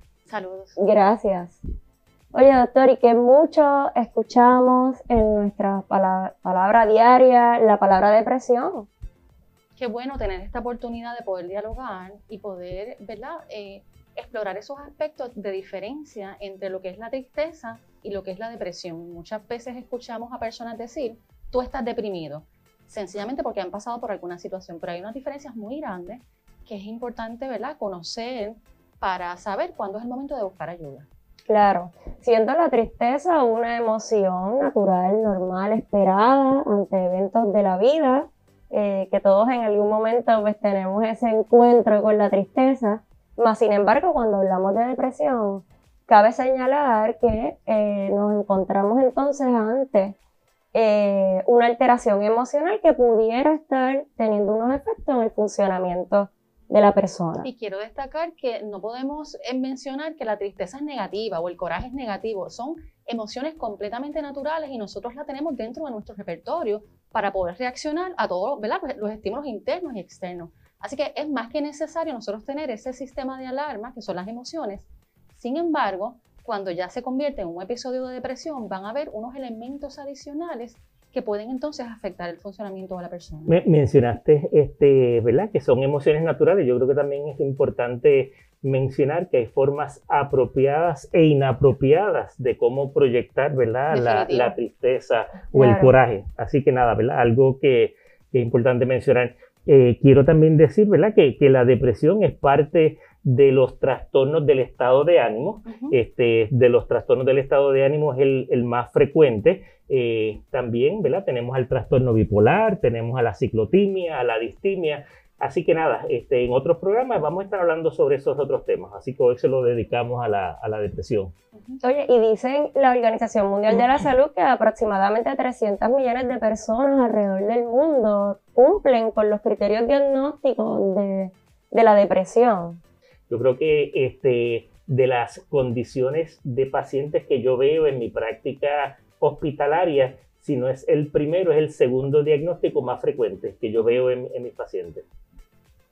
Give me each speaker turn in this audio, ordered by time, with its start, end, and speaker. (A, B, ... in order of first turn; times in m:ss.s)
0:00.3-0:00.8 A
0:00.8-0:01.6 B
0:02.3-0:08.9 B
0:09.8-0:31.1 A
0:31.5-0:50.2 B
0:50.8-0:57.5 B
0:57.4-1:23.6 A
1:23.5-2:01.3 C
1:33.9-1:34.6 A
1:35.5-1:35.9 B
1:45.7-1:46.0 A
2:01.5-2:01.8 A
2:01.8-2:12.8 B
2:13.3-2:25.1 C